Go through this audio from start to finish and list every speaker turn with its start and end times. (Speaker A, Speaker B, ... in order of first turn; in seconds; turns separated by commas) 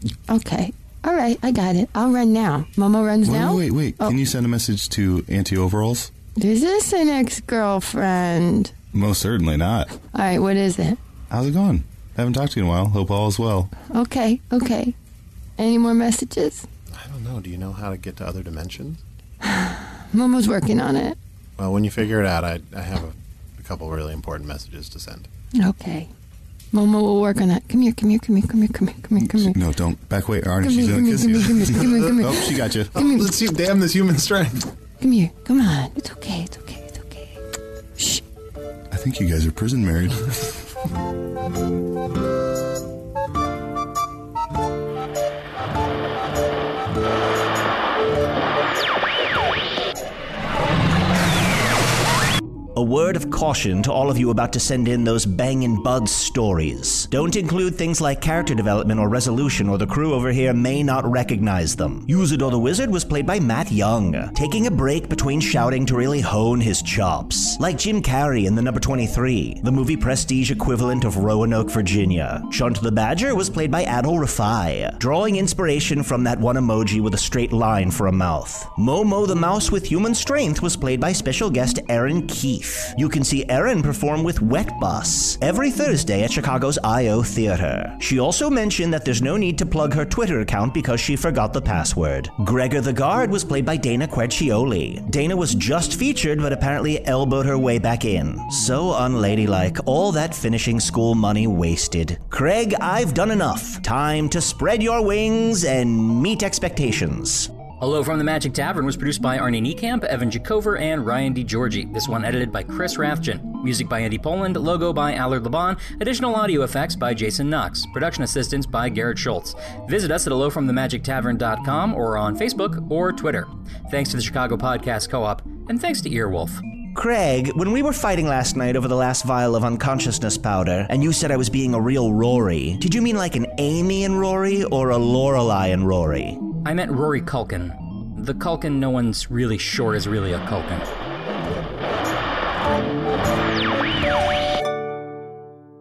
Speaker A: 0.3-4.2, Speaker B: 3.2-6.1, Speaker A: 6.4-8.7, Speaker B: 8.9-9.9, Speaker A: 10.0-11.0, Speaker B: 11.3-13.7, Speaker A: 13.9-14.9, Speaker A: 15.6-16.7, Speaker C: 16.9-19.0, Speaker A: 19.4-21.2, Speaker C: 21.6-25.3, Speaker A: 25.6-26.1, Speaker A: 26.7-29.6, Speaker B: 29.2-33.0, Speaker A: 30.6-33.4, Speaker C: 31.9-32.2, Speaker C: 32.9-34.7, Speaker A: 35.0-37.4, Speaker B: 38.9-40.4, Speaker D: 52.8-107.5, Speaker E: 107.8-126.6, Speaker D: 127.0-136.4, Speaker E: 136.6-140.9